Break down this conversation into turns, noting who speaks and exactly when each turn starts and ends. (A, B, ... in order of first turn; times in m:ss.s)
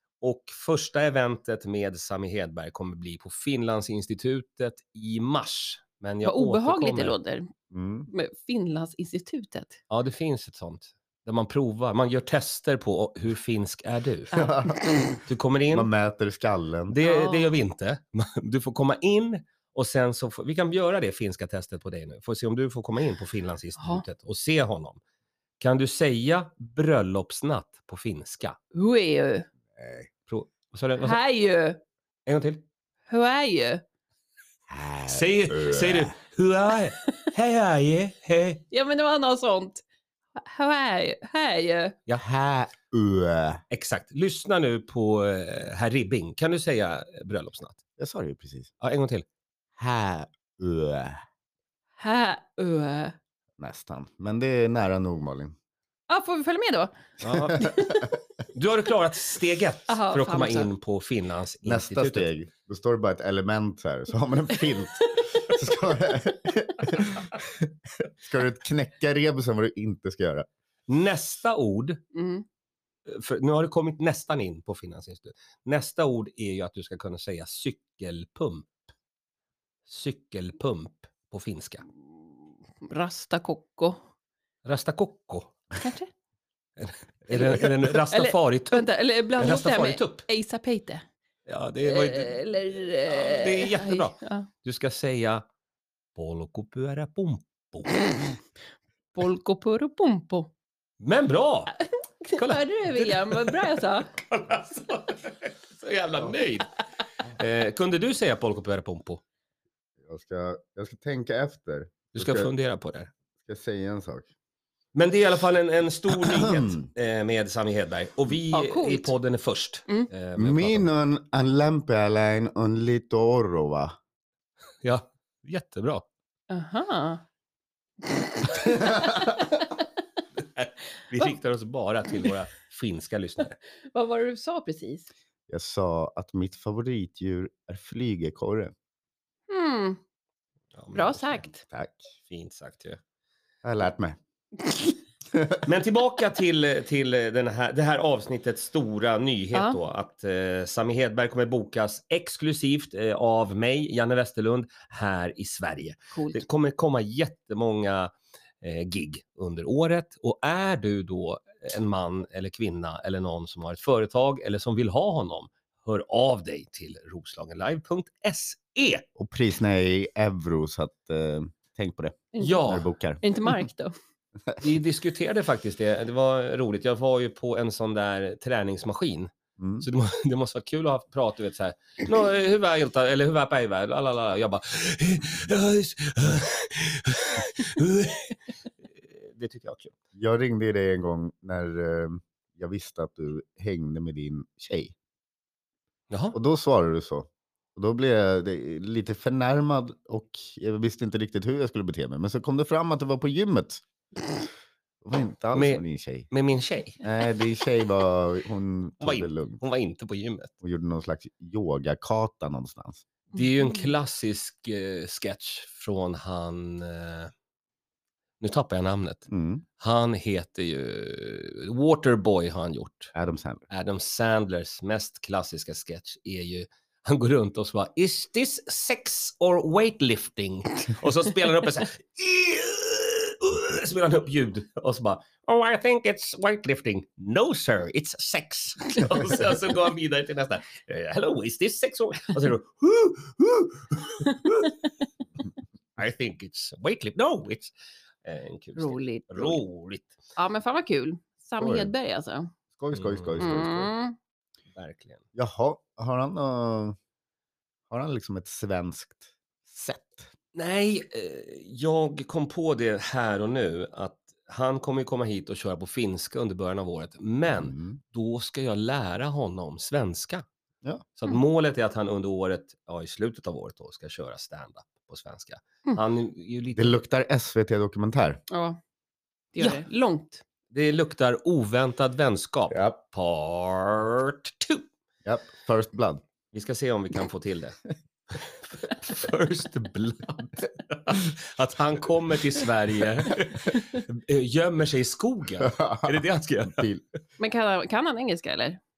0:00.2-0:07.2 A
0:06.2-0:07.5 B
0:07.7-0:08.1 C
0:08.1-0:09.8 B
0:09.9-0:14.3 A
0:14.3-0:14.9 B
0:14.3-0:15.2 C
0:15.3-0:15.9 A
0:15.7-0:17.0 C
0:16.9-0:25.0 A
0:17.0-0:17.5 B
0:23.8-0:24.0 B
0:25.6-0:28.6 A
0:28.7-0:29.5 B
0:29.8-0:30.1 C
0:30.3-0:31.2 A
0:31.0-0:31.8 B
0:32.3-0:32.6 A
0:33.1-0:33.8 B
0:34.7-0:36.2 C
0:35.1-0:38.6 A
0:38.7-0:39.8 B
0:40.4-0:42.0 B
0:42.2-0:43.6 C
0:43.7-0:47.8 A
0:48.0-0:48.7 C
0:48.8-0:49.2 A
0:49.8-0:51.2 C
0:52.0-0:53.2 B
0:53.6-0:55.6 C
0:56.1-0:57.0 B
0:57.2-0:57.8 A
0:57.4-0:58.2 C
0:57.6-0:58.0 B
0:58.5-1:02.3 A
0:59.9-1:00.7 B
1:01.6-1:10.5 C
1:10.9-1:12.0 A
1:12.1-1:12.4 B
1:13.1-1:18.7 A
1:19.9-1:21.9 A
1:22.8-1:24.0 B
1:24.6-1:25.5 A
1:25.8-1:26.1 B
1:26.8-1:30.2 A
1:27.3-1:31.0 B
1:31.5-1:32.4 A
1:31.8-1:34.5 B
1:33.1-1:35.4 A
1:36.2-1:38.1 A
1:39.1-1:40.5 B
1:41.0-1:41.8 A
1:41.8-1:44.1 B
1:42.3-1:46.7 A
1:47.4-1:49.2 A
1:50.0-1:52.5 C
1:52.2-1:53.1 A
1:53.4-1:54.3 C
1:55.0-2:00.9 A
1:56.2-1:56.9 C
1:58.5-1:59.1 B
2:00.4-2:04.0 C
2:04.8-2:06.1 A
2:06.5-2:07.2 B
2:08.0-2:09.4 B
2:08.7-2:09.4 C
2:10.4-2:13.6 A
2:13.9-2:15.1 B
2:15.5-2:18.7 C
2:19.5-2:20.0 B
2:20.8-2:21.5 A
2:20.9-2:21.6 B
2:21.7-2:22.1 C
2:22.3-2:23.0 A
2:23.6-2:24.2 C
2:25.3-2:25.6 C
2:25.6-2:49.1 A
2:29.5-2:29.8 B
2:36.1-2:36.4 B
2:49.2-2:53.2 C
2:52.3-2:53.9 B
2:52.4-2:52.9 A
2:54.6-2:59.3 A
2:59.6-2:59.9 C
2:59.8-3:09.9 A
3:10.2-3:15.0 C
3:16.1-3:16.4 A
3:16.3-3:23.8 C
3:25.0-3:26.3 C
3:25.6-3:27.0 A
3:27.0-3:29.6 C
3:29.0-3:30.5 A
3:30.6-3:33.0 C
3:33.3-3:37.3 A
3:33.4-3:33.9 B
3:38.4-3:39.3 A
3:39.3-3:39.6 C
3:39.8-3:43.1 A
3:43.1-3:43.6 C
3:43.7-4:04.7 A
4:06.0-4:07.7 A
4:08.2-4:10.1 A
4:08.8-4:09.6 B
4:10.4-4:12.5 B
4:11.6-4:11.9 C
4:12.8-4:13.9 C
4:12.9-4:13.6 A
4:13.4-4:14.2 B
4:14.7-4:15.2 A
4:15.4-4:17.0 C
4:17.9-4:20.3 C
4:20.5-4:30.4 A
4:27.5-4:28.0 C
4:31.2-4:37.0 A
4:36.8-4:38.4 C
4:38.5-4:38.8 B
4:39.5-4:40.4 B
4:40.7-4:44.8 A
4:42.7-4:43.0 C
4:45.2-4:46.2 C
4:46.5-4:47.8 A
4:48.3-4:56.9 A
4:55.6-4:57.0 C
4:57.4-4:58.8 B